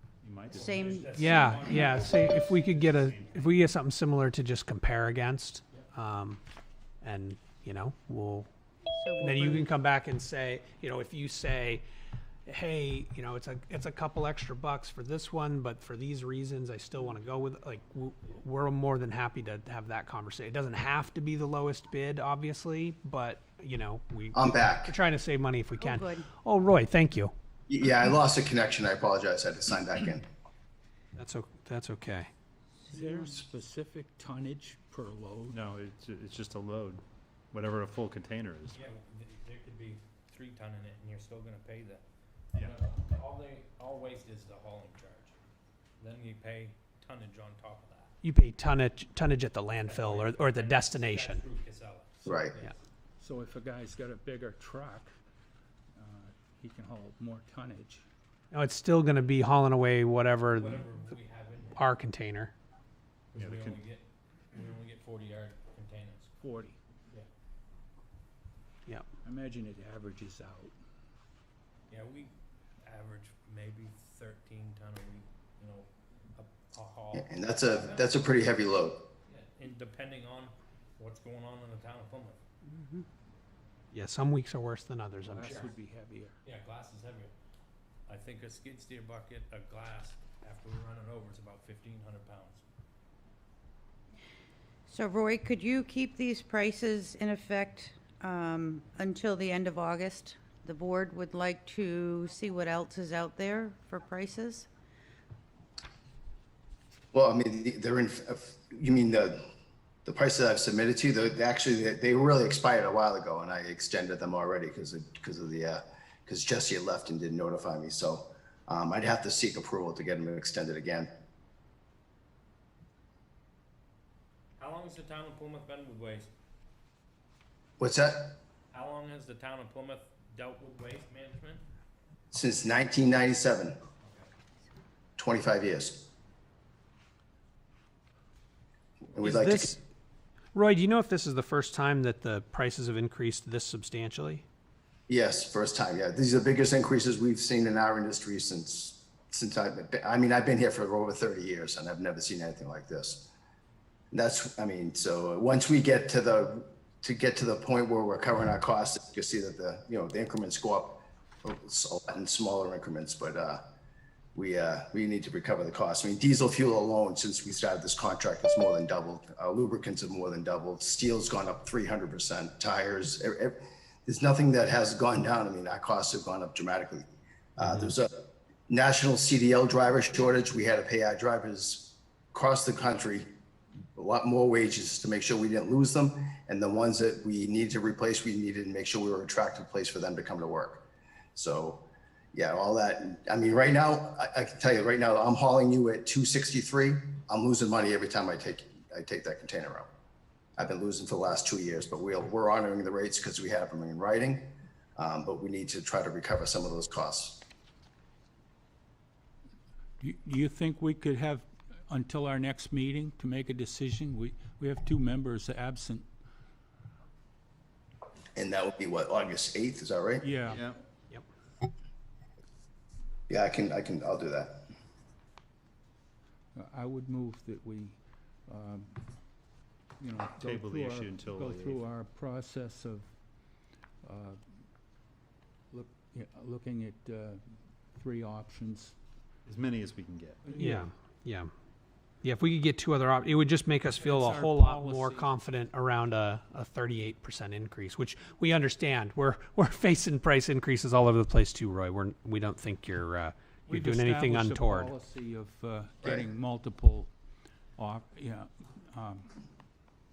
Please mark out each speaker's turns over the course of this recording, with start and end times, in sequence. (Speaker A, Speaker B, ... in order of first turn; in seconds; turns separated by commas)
Speaker A: 0.2-1.1, Speaker B: 0.5-1.9, Speaker C: 0.8-3.1, Speaker D: 1.1-6.4, Speaker D: 7.0-8.5, Speaker B: 8.9-9.7, Speaker D: 9.2-11.8, Speaker D: 12.5-27.3, Speaker E: 24.3-24.9, Speaker B: 25.8-26.3, Speaker E: 27.7-30.2, Speaker D: 31.2-32.3, Speaker F: 32.9-35.6, Speaker A: 35.5-38.8, Speaker C: 38.7-45.4, Speaker C: 46.0-48.1, Speaker D: 48.2-51.4, Speaker C: 49.8-52.8, Speaker E: 52.2-52.6, Speaker F: 53.2-55.1, Speaker F: 55.9-58.0, Speaker D: 58.5-60.8, Speaker C: 60.5-61.9, Speaker D: 61.8-62.5, Speaker C: 63.3-66.3, Speaker A: 63.4-63.8, Speaker F: 66.4-66.8, Speaker F: 69.2-70.8, Speaker C: 71.9-78.3, Speaker E: 77.1-79.1, Speaker C: 79.3-82.4, Speaker D: 83.9-85.6, Speaker F: 85.3-86.4, Speaker C: 86.4-87.3, Speaker C: 88.1-92.6, Speaker B: 94.9-104.7, Speaker E: 107.1-109.4, Speaker E: 110.0-121.1, Speaker C: 124.6-126.3, Speaker E: 127.8-128.3, Speaker C: 128.7-131.6, Speaker E: 132.3-133.8, Speaker E: 135.2-136.1, Speaker E: 139.1-139.8, Speaker D: 139.2-139.7, Speaker D: 140.6-144.4, Speaker E: 145.1-153.3, Speaker E: 154.1-163.6, Speaker E: 164.3-178.1, Speaker E: 178.7-183.3, Speaker E: 184.0-190.8, Speaker E: 191.3-191.8, Speaker E: 192.3-199.9, Speaker E: 200.6-207.4, Speaker F: 210.0-216.1, Speaker E: 218.4-220.2, Speaker F: 220.2-220.6, Speaker A: 220.5-220.8, Speaker E: 223.3-224.6, Speaker F: 226.5-229.0, Speaker F: 230.0-233.1, Speaker A: 230.4-231.8, Speaker F: 234.0-234.4, Speaker F: 235.7-239.0, Speaker A: 239.5-240.4, Speaker F: 240.4-240.8, Speaker D: 240.6-241.5, Speaker D: 242.2-254.9, Speaker F: 243.9-245.3, Speaker F: 253.7-257.1, Speaker F: 257.8-259.4